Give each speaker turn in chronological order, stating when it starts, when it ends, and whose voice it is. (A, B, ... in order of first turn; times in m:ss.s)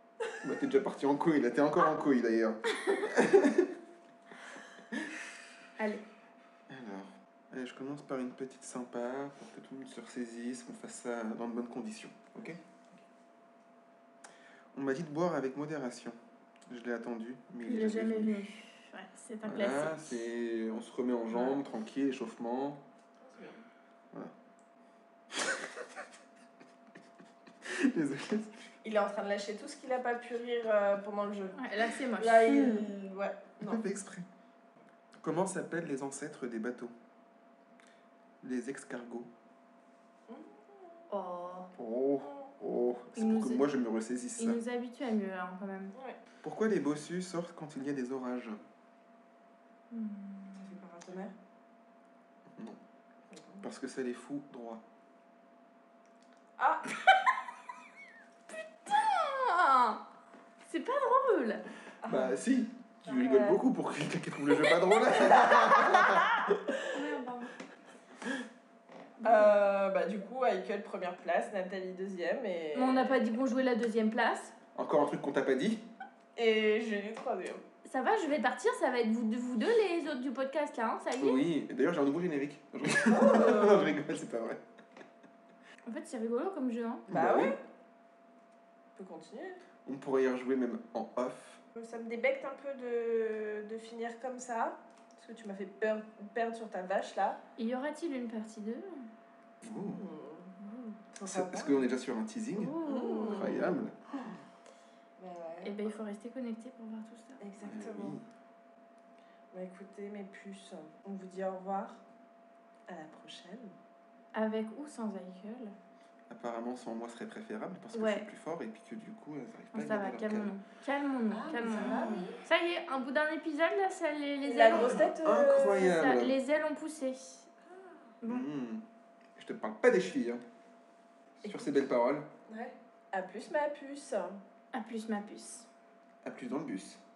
0:00.4-0:03.7 A
0:05.8-0:06.0 B
0:06.7-0:12.6 A
0:14.7-0:16.2 A
0:16.7-0:18.4 A
0:17.6-0:20.3 B
0:19.4-0:22.8 A
0:21.3-0:21.6 C
0:23.2-0:23.6 C
0:27.6-0:28.7 A
0:28.8-0:33.8 C
0:31.5-0:32.9 B
0:32.5-0:32.8 A
0:33.6-0:34.3 A
0:35.2-0:36.9 A
0:38.4-0:39.3 A
0:40.3-0:41.0 C
0:41.1-0:41.7 B
0:41.8-0:44.6 A
0:42.2-0:42.5 C
0:43.2-0:43.8 B
0:44.4-0:46.0 B
0:46.4-0:48.6 A
0:49.9-0:50.7 B
0:50.6-0:51.3 C
0:53.3-0:53.6 C
0:53.6-0:54.8 A
0:56.6-0:56.9 C
0:58.5-1:00.0 B
1:00.6-1:01.6 B
1:02.0-1:02.4 C
1:02.1-1:06.6 A
1:03.0-1:03.6 C
1:06.9-1:07.5 B
1:09.2-1:09.5 B
1:09.2-1:13.3 C
1:12.7-1:14.5 B
1:14.8-1:15.8 A
1:16.4-1:17.6 C
1:17.8-1:21.5 B
1:21.2-1:24.6 A
1:23.1-1:24.0 C
1:25.8-1:27.1 B
1:27.1-1:27.6 A
1:27.1-1:27.6 C
1:29.0-1:29.6 C
1:29.8-1:31.6 A
1:31.8-1:37.4 C
1:37.6-1:39.0 B
1:39.6-1:40.0 A
1:39.7-1:41.9 C
1:41.2-1:44.0 A
1:42.6-1:43.8 B
1:42.8-1:43.9 C
1:45.2-1:45.8 C
1:45.6-1:47.4 B
1:47.4-1:48.2 C
1:47.6-1:48.2 A
1:49.5-1:52.0 C
1:52.9-1:53.7 C
1:54.3-1:55.7 B
1:56.3-2:00.5 A
1:57.9-1:58.3 B
1:59.7-2:05.1 B
2:01.3-2:02.4 C
2:01.7-2:02.3 A
2:04.4-2:05.8 C
2:04.7-2:06.4 A
2:05.7-2:07.5 B
2:08.2-2:08.5 B
2:08.2-2:08.8 A
2:09.4-2:10.4 A
2:11.4-2:12.3 A
2:11.4-2:11.8 C
2:12.5-2:14.4 C
2:14.7-2:15.7 B
2:16.2-2:17.0 A